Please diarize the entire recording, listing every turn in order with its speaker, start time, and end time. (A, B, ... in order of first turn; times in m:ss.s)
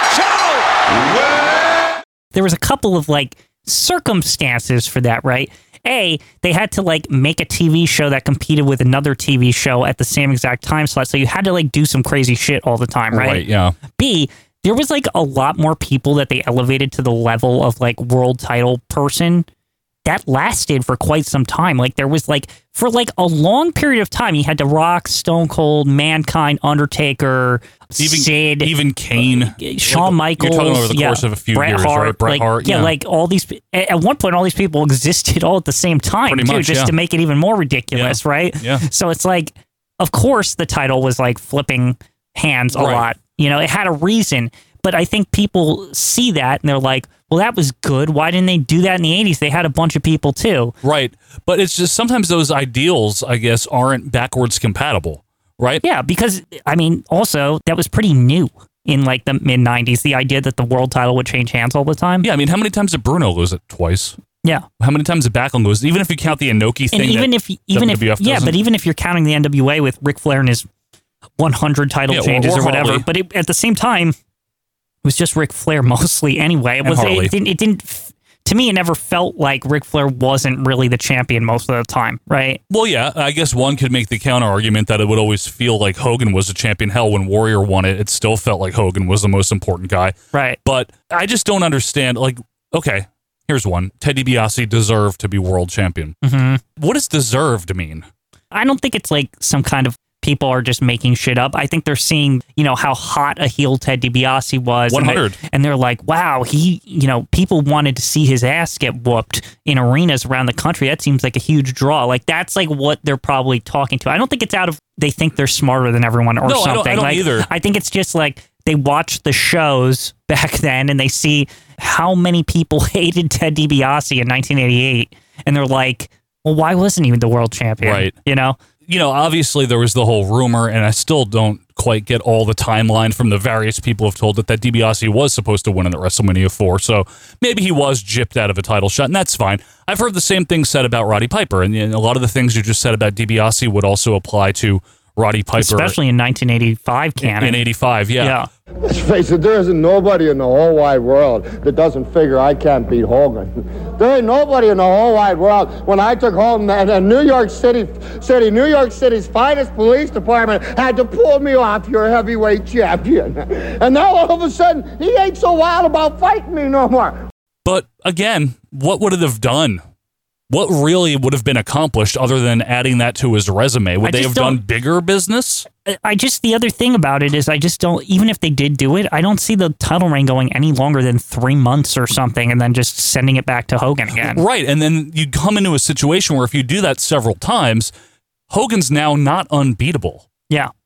0:02.3-0:19.5 A
0:13.1-0:13.8 B
0:20.0-0:50.7 A
0:28.0-0:32.9 B
0:36.3-0:37.0 B
0:37.9-0:38.8 B
0:42.7-0:43.0 B
0:50.8-0:55.8 B
0:55.8-1:02.3 A
1:02.2-1:04.2 B
1:04.8-1:08.6 B
1:06.9-1:10.7 A
1:11.4-1:14.2 A
1:12.1-1:13.1 B
1:15.0-1:22.6 A
1:16.8-1:17.3 B
1:22.7-1:36.2 B
1:30.3-1:30.6 A
1:36.2-1:36.6 A
1:36.8-1:38.1 B
1:38.5-2:08.6 A
1:44.9-1:45.4 B
1:56.4-1:57.5 B
2:07.8-2:08.2 B
2:08.9-2:26.0 B
2:25.6-2:27.7 A
2:27.2-2:28.4 B
2:28.2-2:28.5 A
2:28.8-2:47.2 C
2:47.6-2:49.8 B
2:50.5-2:55.7 B
2:54.0-2:54.6 A
2:55.9-3:04.4 A
3:04.1-3:07.9 B
3:08.5-3:10.3 B